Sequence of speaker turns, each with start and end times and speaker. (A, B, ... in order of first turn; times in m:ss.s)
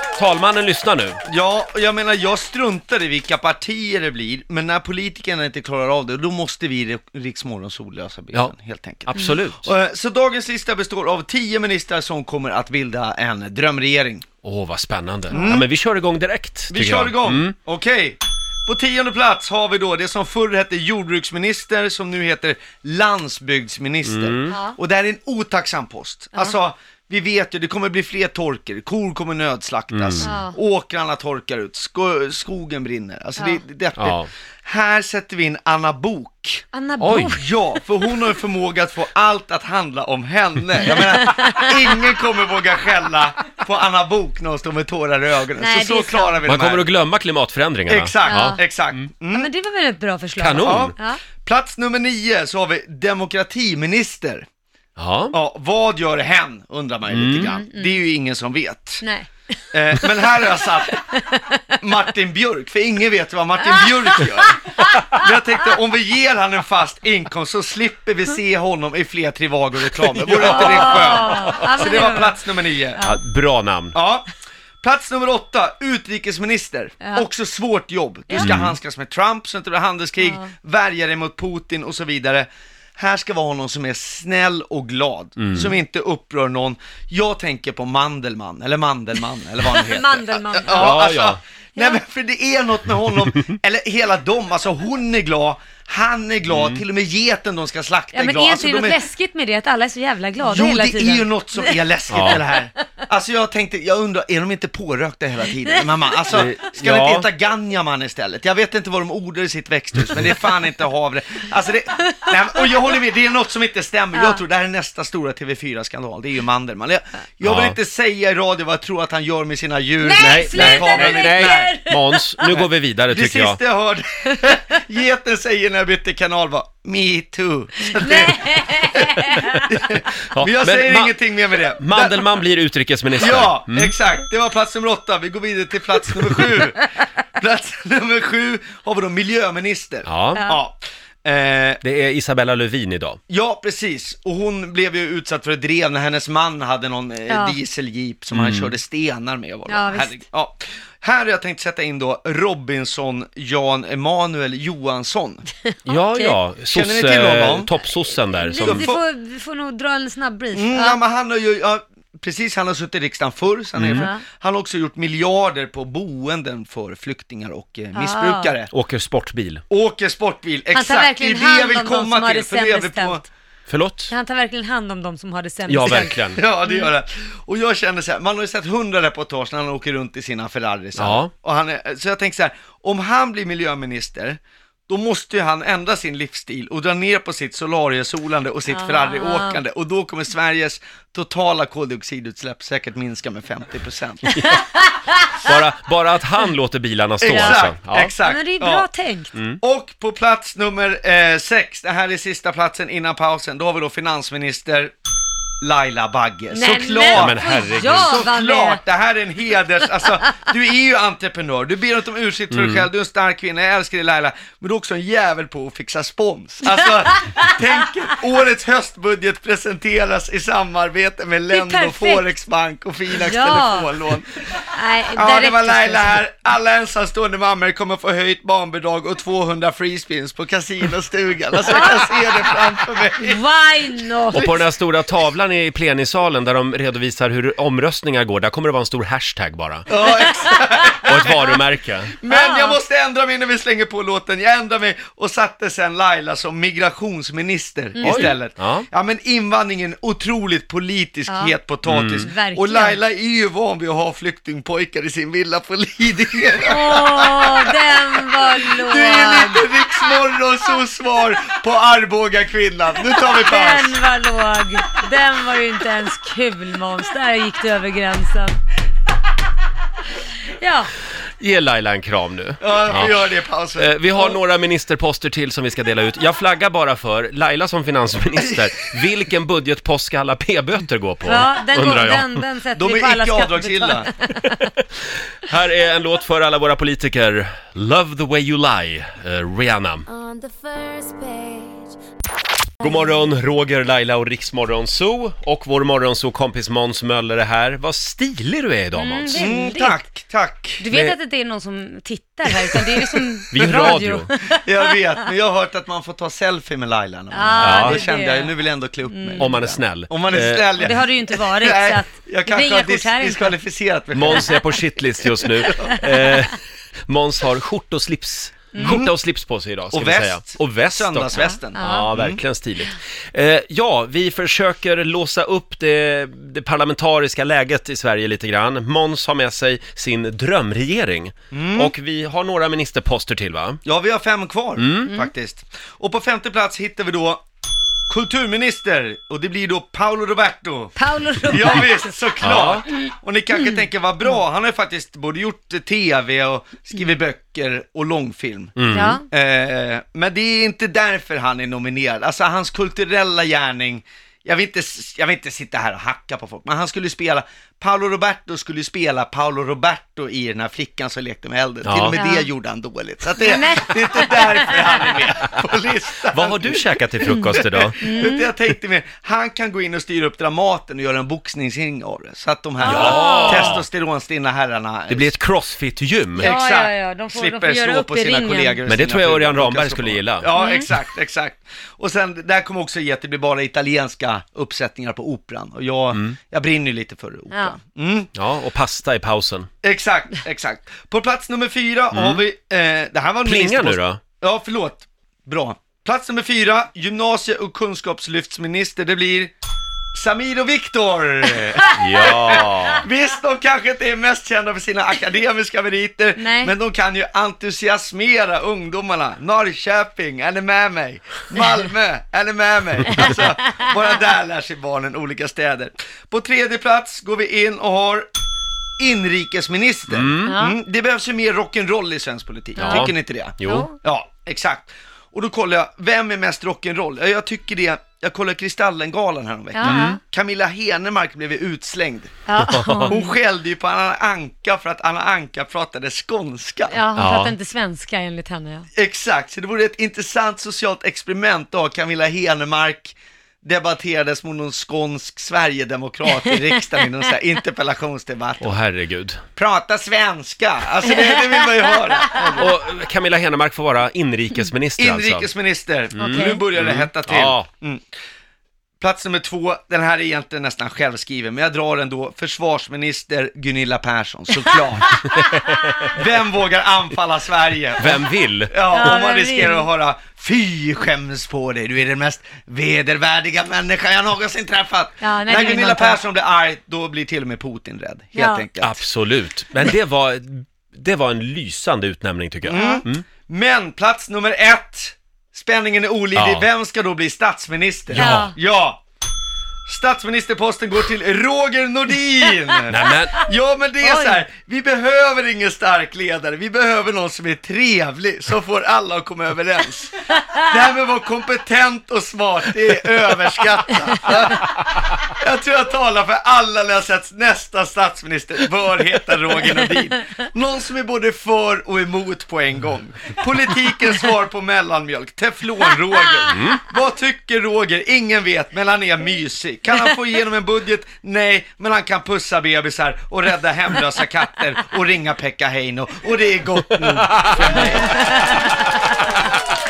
0:00.1-0:01.2 A
0:01.3-0:14.2 B
0:09.1-0:09.7 A
0:14.4-0:17.6 A
0:15.3-0:15.7 B
0:16.7-0:36.7 B
0:24.0-0:24.6 A
0:24.5-0:24.8 C
0:29.9-0:30.3 A
0:30.2-0:30.6 C
0:33.4-0:33.6 C
0:34.0-0:34.3 A
0:36.7-0:37.8 C
0:37.0-0:37.4 A
0:37.4-0:46.9 B
0:40.8-0:41.9 C
0:45.6-0:46.4 C
0:46.4-0:49.0 A
0:47.9-0:49.5 B
0:48.2-0:48.6 C
0:49.3-0:51.2 C
0:50.4-0:50.9 A
0:50.6-0:54.5 B
0:55.0-0:55.4 A
0:55.3-0:59.0 B
0:57.1-0:57.5 A
0:57.3-0:58.0 C
0:59.0-0:59.3 C
0:59.7-1:01.1 B
0:59.9-1:01.6 C
1:01.8-1:13.0 B
1:03.6-1:05.3 C
1:10.3-1:11.6 A
1:10.3-1:13.2 C
1:13.0-1:14.0 A
1:13.9-1:14.3 B
1:14.8-1:39.0 B
1:17.0-1:17.3 C
1:18.3-1:18.6 C
1:18.4-1:18.8 A
1:20.2-1:20.5 C
1:25.4-1:25.7 A
1:29.6-1:31.0 C
1:30.7-1:31.4 A
1:36.5-1:36.8 A
1:38.1-1:42.6 C
1:40.4-2:01.7 B
1:42.1-1:42.4 A
1:45.6-1:45.9 C
1:46.3-1:47.3 A
1:50.0-1:50.3 A
1:52.1-1:52.7 C
1:54.1-1:54.4 C
1:57.4-1:57.8 A
2:00.0-2:02.6 C
2:00.2-2:03.6 A
2:02.4-2:12.3 B
2:07.9-2:09.8 C
2:10.3-2:11.1 A
2:11.8-2:13.9 A
2:13.2-2:16.8 B
2:17.4-2:21.8 B
2:20.0-2:20.4 A
2:20.4-2:20.6 C
2:21.8-2:23.2 A
2:23.3-2:35.5 B
2:27.3-2:27.6 C
2:28.3-2:28.8 A
2:29.7-2:30.2 C
2:35.9-2:36.4 C
2:35.9-2:39.0 A
2:36.7-2:37.7 B
2:38.3-2:41.0 C
2:38.6-2:39.0 B
2:40.5-2:48.7 B
2:43.8-2:44.1 A
2:43.9-2:44.2 C
2:48.0-2:48.6 C
2:48.7-2:49.6 A
2:49.7-2:53.2 B
2:50.7-2:53.3 C
2:53.7-2:54.1 A
2:54.1-2:56.9 C
2:55.7-2:56.4 A
2:55.8-3:14.3 B
3:01.0-3:01.3 A
3:08.7-3:09.6 C
3:15.4-3:18.1 A
3:17.2-3:18.9 B
3:17.2-3:17.6 C
3:18.2-3:19.3 C
3:19.6-3:24.9 B
3:25.6-3:44.4 B
3:26.5-3:28.8 C
3:27.0-3:28.2 A
3:32.5-3:32.9 A
3:36.8-3:37.8 C
3:41.5-3:42.3 C
3:43.1-3:43.9 C
3:44.7-3:46.2 C
3:45.2-3:53.4 B
3:51.7-3:52.6 C
3:53.2-3:54.5 C
3:54.3-3:54.6 B
3:54.3-3:59.9 A
3:59.9-4:01.6 B
4:00.0-4:01.4 C
4:01.0-4:02.1 A
4:02.2-4:24.0 B
4:02.3-4:02.8 C
4:08.0-4:08.4 C
4:08.0-4:08.9 A
4:11.3-4:11.6 C
4:11.9-4:12.3 A
4:12.2-4:13.0 C
4:16.7-4:19.7 C
4:23.2-4:28.6 C
4:30.6-4:30.9 C
4:31.4-4:33.2 A
4:32.6-4:34.4 B
4:33.8-4:42.4 A
4:41.2-4:44.6 C
4:42.8-4:44.1 B
4:44.4-4:44.7 A
4:45.5-4:50.1 A
4:50.1-4:51.9 C
4:52.8-4:59.5 A
4:59.0-5:00.0 C
4:59.4-5:00.8 B
5:00.8-5:05.3 C
5:00.9-5:01.2 A
5:03.5-5:04.3 A
5:04.6-5:14.7 B
5:07.3-5:09.6 C
5:07.6-5:08.1 A
5:09.4-5:10.7 A
5:10.8-5:13.6 C
5:14.1-5:33.8 A
5:15.4-5:16.0 B
5:18.7-5:19.0 C
5:18.8-5:19.1 B
5:19.9-5:22.4 B
5:21.3-5:22.1 C
5:31.5-5:31.9 B
5:33.8-5:37.4 B
5:34.8-5:35.1 A
5:35.1-5:35.3 C
5:38.1-6:15.4 B
5:41.0-5:42.2 C
5:42.4-5:42.8 A
5:43.6-5:44.4 C
5:48.8-5:49.2 A
5:48.9-5:49.2 C
6:01.8-6:02.2 A
6:02.2-6:02.5 C
6:03.4-6:05.2 C
6:06.3-6:08.1 A
6:07.2-6:08.5 C
6:12.8-6:13.8 C
6:12.8-6:13.8 A
6:15.1-6:16.6 A
6:16.4-6:28.3 B
6:16.4-6:18.8 C
6:18.9-6:20.5 A
6:20.6-6:20.9 C
6:28.4-6:29.7 A
6:29.8-6:39.5 B
6:32.1-6:32.4 A
6:33.4-6:34.2 A
6:40.2-6:58.3 B
6:41.8-6:42.7 C
6:42.0-6:43.1 A
6:46.4-6:46.7 C
6:53.1-6:53.5 C
6:59.0-7:12.5 B
7:00.1-7:00.6 A
7:00.4-7:00.8 C
7:02.8-7:03.9 A
7:02.8-7:03.9 C
7:09.7-7:10.2 C
7:09.8-7:10.2 A
7:12.5-7:13.4 C
7:12.6-7:13.2 A
7:13.0-7:17.0 B
7:16.9-7:18.9 C
7:17.2-7:17.6 A
7:18.9-7:28.8 B
7:28.6-7:29.4 A
7:29.6-7:32.7 B
7:31.0-7:32.6 C
7:32.6-7:35.5 A
7:35.0-7:38.0 B
7:36.2-7:37.7 A
7:36.2-7:36.7 C
7:39.0-7:45.3 B
7:45.5-7:46.2 A
7:46.1-7:59.0 B
7:48.0-7:48.8 A
7:48.9-7:49.9 C
7:55.2-7:56.2 C
7:58.4-7:58.7 C
7:58.8-8:03.2 A
8:02.6-8:09.0 B
8:02.7-8:03.0 C
8:06.4-8:06.7 A
8:08.1-8:08.6 C
8:08.1-8:08.5 A
8:09.9-8:48.5 B
8:12.9-8:13.4 A
8:14.0-8:14.4 C
8:36.5-8:36.8 A
8:47.2-8:48.8 A
8:47.8-8:48.6 C